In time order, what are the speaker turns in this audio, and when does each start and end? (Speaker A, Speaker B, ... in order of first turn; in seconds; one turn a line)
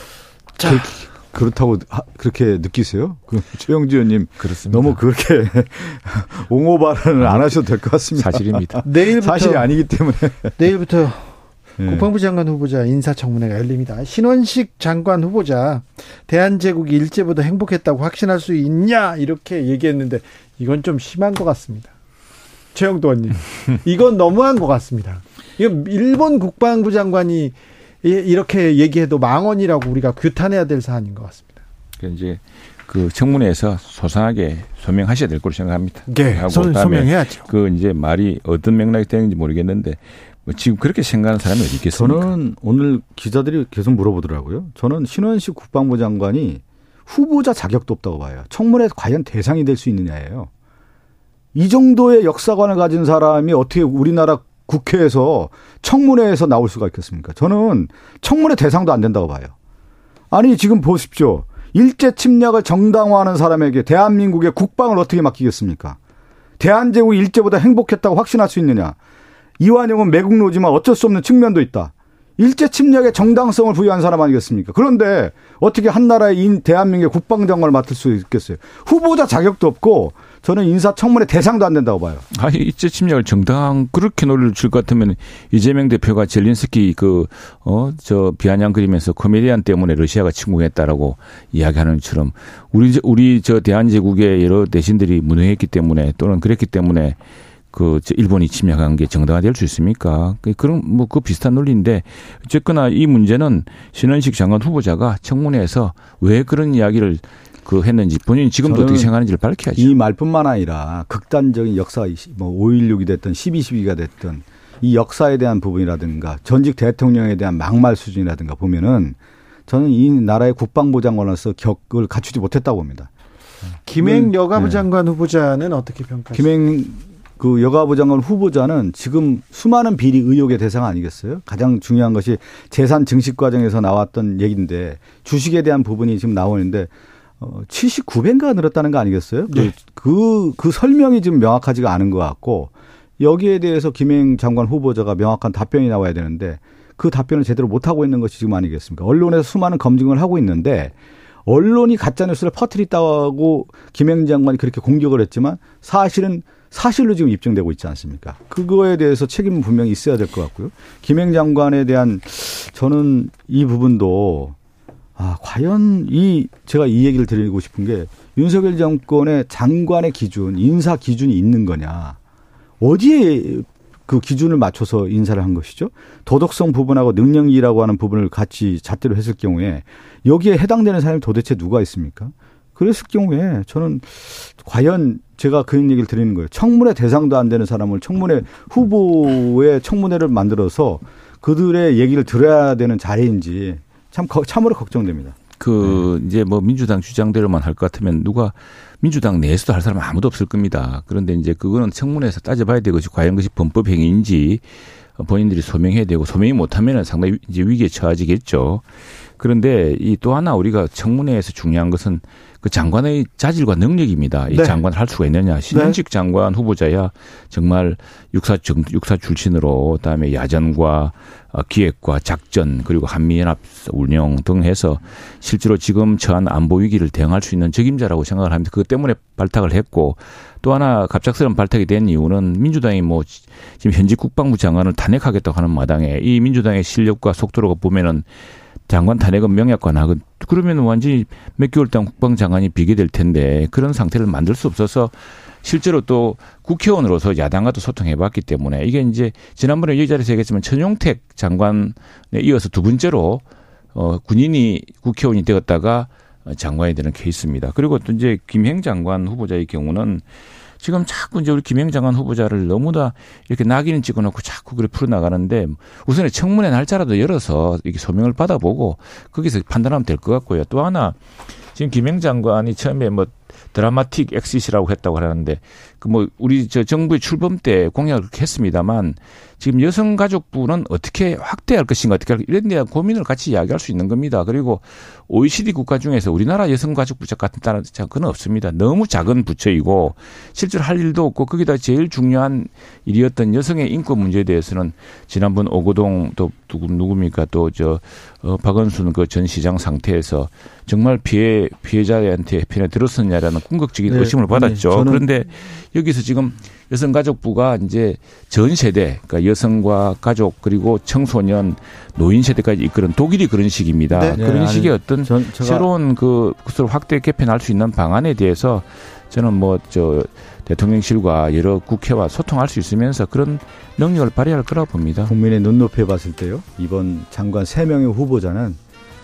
Speaker A: 0.7-10.6
Speaker B: 4.4-5.0
Speaker B: 8.2-8.8
Speaker C: 8.8-9.7
Speaker C: 10.6-21.9
Speaker A: 11.8-12.1
Speaker C: 22.7-31.6
Speaker B: 32.0-42.3
Speaker C: 36.1-37.5
Speaker A: 41.9-50.5
Speaker A: 51.5-59.5
Speaker A: 60.3-66.0
Speaker A: 66.6-69.0
Speaker A: 69.6-82.2
Speaker B: 82.3-97.2
Speaker B: 97.7-109.9
Speaker A: 108.6-109.1
Speaker A: 109.8-123.1
Speaker C: 123.8-126.5
Speaker A: 124.0-124.9
Speaker A: 126.3-150.9
Speaker A: 151.4-164.6
Speaker A: 165.2-172.2
Speaker A: 172.8-196.0
Speaker B: 195.6-204.6
Speaker B: 205.2-208.8
Speaker B: 209.4-238.3
Speaker C: 214.5-214.8
Speaker C: 215.7-216.0
Speaker B: 238.9-260.2
Speaker B: 260.8-271.2
Speaker B: 271.7-325.3
Speaker A: 304.1-305.2
Speaker C: 314.1-314.4
Speaker A: 314.3-315.9
Speaker A: 325.2-328.8